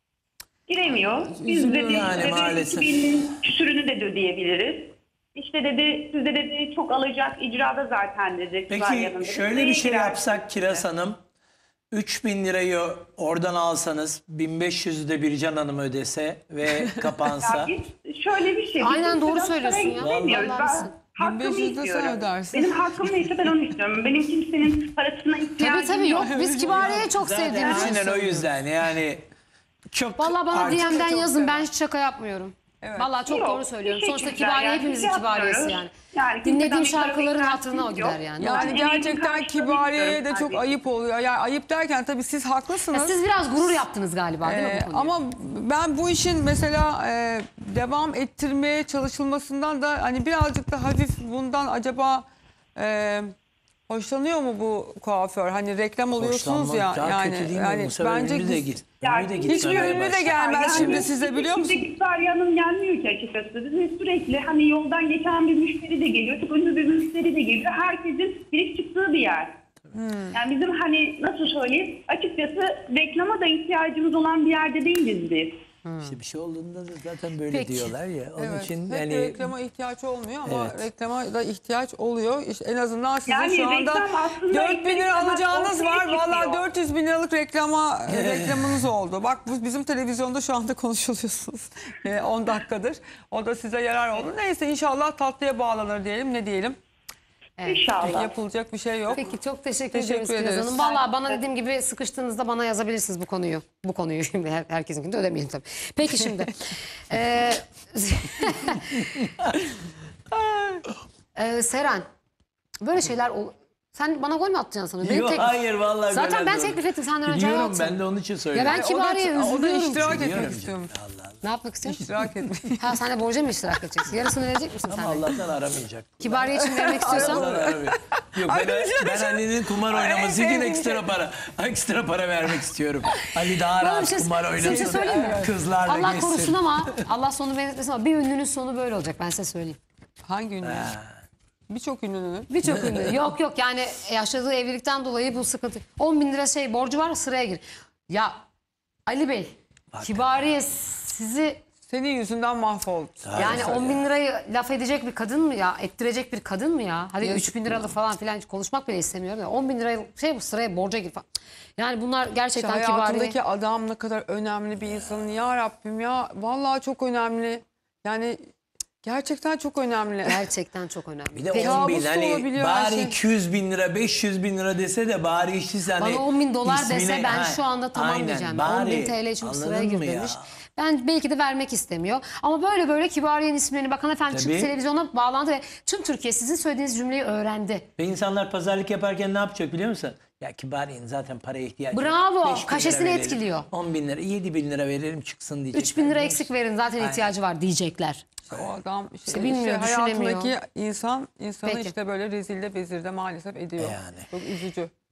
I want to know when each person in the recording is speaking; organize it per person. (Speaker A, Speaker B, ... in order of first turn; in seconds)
Speaker A: 0.7-10.8, 17.4-26.4, 27.5-27.9, 33.2-40.8, 59.0-69.5, 70.3-75.5, 83.3-86.6, 97.6-98.3, 100.8-101.4
Speaker B: 0.9-2.2, 16.9-17.2, 21.2-23.0, 26.2-27.2, 30.5-31.7, 32.8-33.2, 38.4-43.2, 44.4-53.3, 53.9-58.7, 59.5-61.9, 69.9-70.4, 78.4-96.8, 98.0-99.2, 99.9-100.8, 118.7-120.9, 121.8-123.0, 126.6-131.0, 134.6-135.5, 140.2-140.9, 141.7-142.5, 151.9-153.8, 162.6-168.5, 169.0-170.4, 171.5-173.2, 198.4-204.9
Speaker C: 1.9-3.0, 8.7-11.2, 11.9-17.7, 20.0-20.6, 26.7-29.3, 29.9-31.0, 56.2-61.1, 76.0-79.5, 80.4-80.8, 88.1-88.8, 109.0-109.5, 115.0-118.8, 119.9-122.6, 124.9-137.0, 140.6-141.2, 142.7-143.2, 149.9-150.5, 153.2-154.1, 171.3-180.5, 184.3-184.7, 188.0-197.3, 203.8-204.3
Speaker D: 18.8-20.9, 25.6-28.4, 30.2-38.9, 42.9-45.1, 75.8-76.2, 77.5-77.9, 97.6-97.9, 99.1-109.2, 111.3-112.1, 112.8-118.0, 118.5-120.2, 121.4-122.0, 122.8-125.3, 126.2-127.5, 133.8-139.8, 142.5-148.4, 149.1-151.6, 153.3-161.3, 161.8-163.4, 170.2-171.9, 175.9-187.9, 191.9-193.7, 195.7-198.2, 199.3-200.5, 201.7-201.9